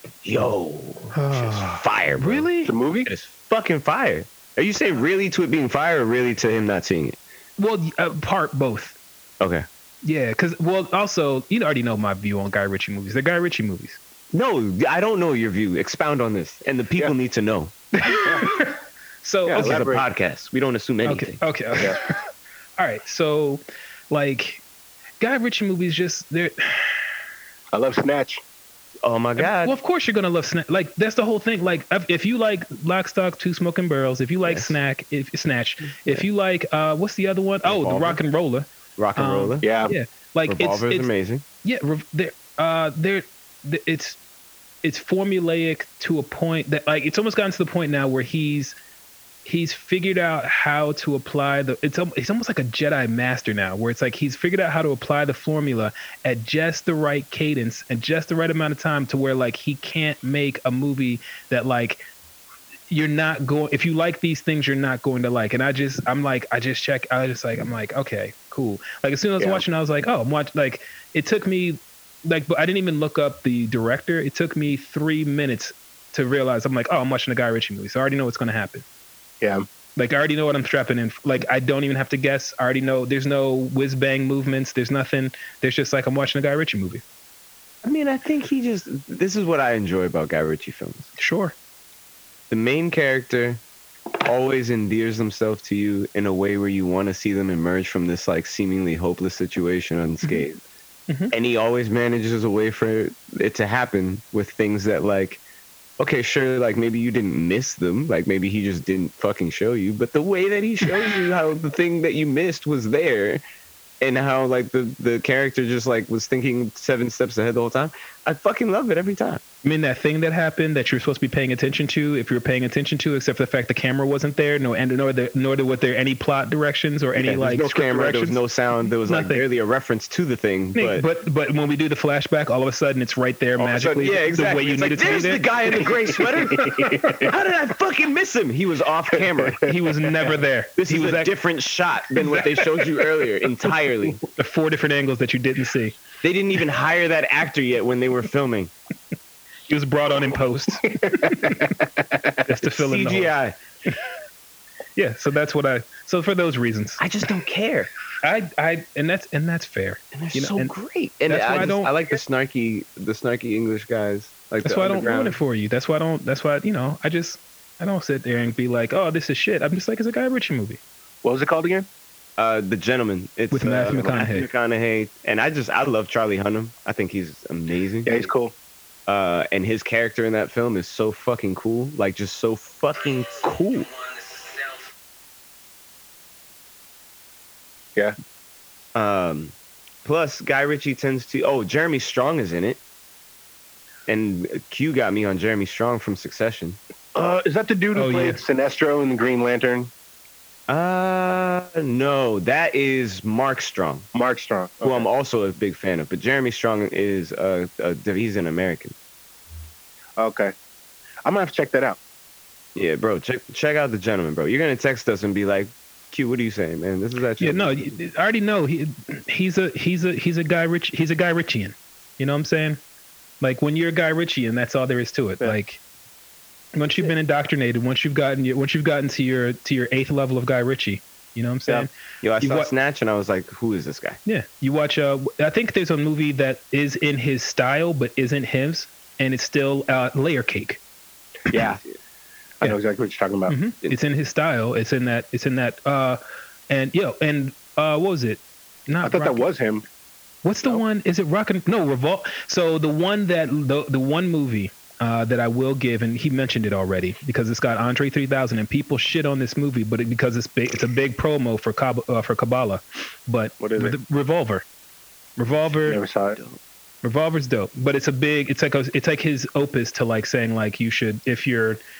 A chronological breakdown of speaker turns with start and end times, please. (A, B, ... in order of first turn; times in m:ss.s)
0:00.2-0:02.5 A
0:01.1-0:02.7 B
0:02.6-0:03.1 C
0:03.0-0:07.2 A
0:07.6-0:09.0 B
0:09.4-0:09.6 A
0:10.0-0:14.0 B
0:14.3-0:17.7 A
0:18.0-0:19.8 B
0:19.4-0:20.0 C
0:19.5-0:21.4 A
0:21.0-0:22.2 B
0:22.8-0:24.6 B
0:25.2-0:27.0 B
0:27.7-0:28.4 C
0:29.0-0:29.8 A
0:29.4-0:41.1 B
0:34.4-0:34.8 A
0:37.6-0:38.2 A
0:39.0-0:39.6 A
0:39.6-0:39.9 C
0:40.5-0:41.4 A
0:41.6-0:44.2 B
0:44.8-0:48.8 B
0:49.4-1:02.0 B
1:02.9-1:18.8 B
1:20.0-1:27.0 B
1:27.8-1:31.1 A
1:31.2-1:31.5 B
1:32.5-1:33.6 A
1:34.2-1:40.6 A
1:41.3-1:45.4 A
1:46.0-1:53.4 A
1:54.0-1:59.4 A
1:59.6-2:08.4 B
2:07.2-2:11.0 A
2:09.0-2:09.4 B
2:10.7-2:15.5 B
2:13.6-2:19.6 A
2:16.3-2:17.3 B
2:16.8-2:17.2 C
2:19.6-2:21.3 B
2:20.8-2:24.2 A
2:22.2-2:22.5 B
2:24.3-2:26.0 B
2:26.2-2:28.7 A
2:29.7-2:31.8 B
2:30.9-2:31.6 C
2:32.4-2:33.3 B
2:32.6-2:33.6 A
2:35.0-2:37.0 B
2:37.0-2:37.9 A
2:38.2-2:40.7 B
2:40.1-2:45.4 A
2:41.3-2:41.9 B
2:44.6-2:50.8 B
2:51.2-2:51.9 C
2:52.4-2:58.3 A
2:53.5-2:54.5 B
2:58.0-2:58.5 C
2:59.1-3:03.9 A
3:08.9-3:12.8 A
3:14.1-3:16.8 A
3:17.1-3:19.9 C
3:17.9-3:18.4 B
3:20.7-3:24.1 A
3:24.1-3:25.1 C
3:24.8-3:28.9 A
3:30.2-3:30.5 C
3:31.2-3:32.0 C
3:32.7-3:38.0 A
3:37.4-3:42.8 B
3:43.4-3:45.8 B
3:46.7-3:51.9 B
3:52.2-3:54.2 A
3:52.4-3:52.7 B
3:54.2-4:00.8 B
4:01.5-4:01.8 C
4:02.6-4:03.5 C
4:03.5-4:06.2 B
4:06.7-4:09.4 B
4:09.0-4:09.8 C
4:10.4-4:24.6 B
4:23.6-4:23.9 C
4:25.4-4:26.0 B
4:25.8-4:26.4 C
4:27.0-4:31.8 B